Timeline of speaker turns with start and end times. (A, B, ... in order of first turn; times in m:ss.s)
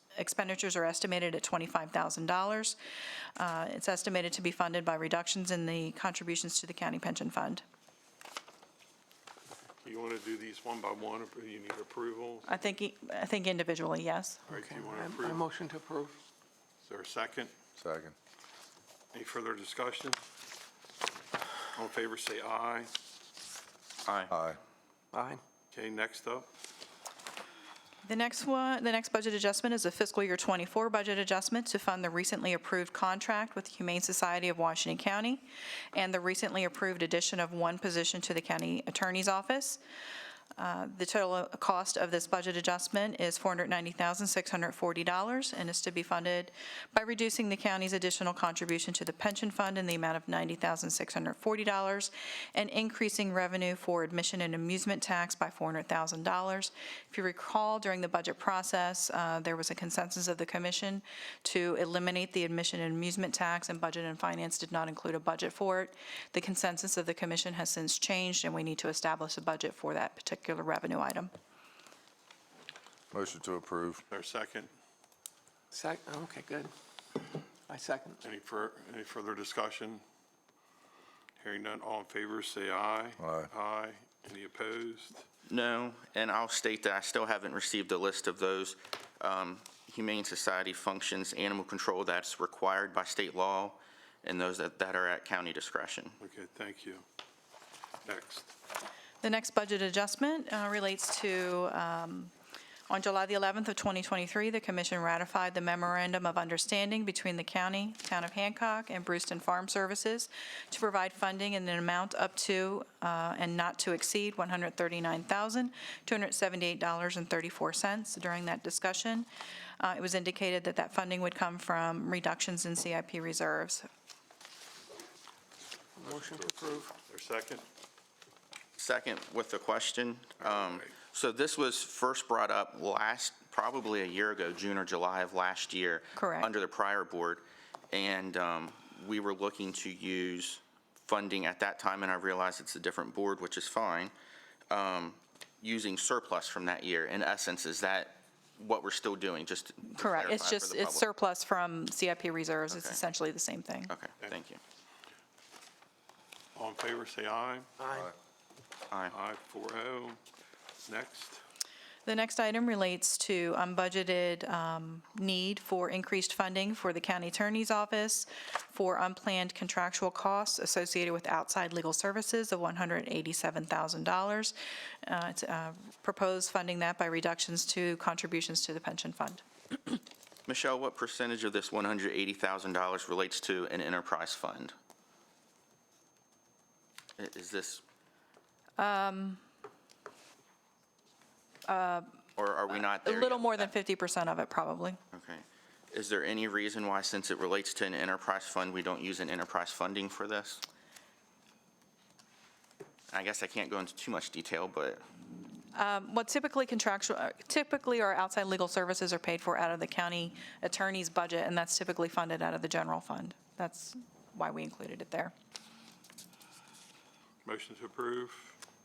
0:00.2-0:02.8 A
0:03.4-0:07.6 A
0:09.8-0:12.6 B
0:12.5-0:14.4 A
0:14.5-0:15.5 B
0:14.5-0:16.2 C
0:16.8-0:17.5 B
0:17.8-0:18.1 D
0:19.1-0:20.2 B
0:21.7-0:22.9 B
0:24.0-0:24.3 E
0:24.3-0:24.6 D
0:25.1-0:25.4 C
0:25.7-0:26.5 B
0:28.0-0:39.8 A
0:40.6-1:11.3 A
1:13.1-1:14.0 D
1:14.1-1:14.7 B
1:15.7-1:18.2 C
1:18.2-1:20.0 B
1:21.4-1:25.2 B
1:23.2-1:23.5 D
1:25.5-1:36.2 E
1:36.2-1:37.0 B
1:38.0-1:38.5 B
1:39.2-1:42.3 A
1:42.9-1:59.3 A
1:59.8-2:03.9 A
2:06.0-2:06.9 C
2:06.0-2:07.6 B
2:08.8-2:24.1 E
2:10.4-2:10.9 B
2:16.2-2:16.5 A
2:24.7-2:31.0 E
2:29.9-2:33.9 A
2:32.7-2:33.0 E
2:33.9-2:34.6 E
2:36.5-2:37.7 B
2:37.8-2:38.1 C
2:38.9-2:39.1 E
2:39.1-2:40.2 B
2:40.8-2:41.4 B
2:42.0-3:00.0 A
3:00.5-3:04.7 E
3:07.2-3:07.8 E
3:08.8-3:09.4 A
3:11.6-3:12.2 A
3:12.4-3:13.7 E
3:12.7-3:15.0 A
3:15.1-3:20.6 E
3:23.1-3:25.0 E
3:25.7-3:35.3 A
3:37.4-3:38.6 B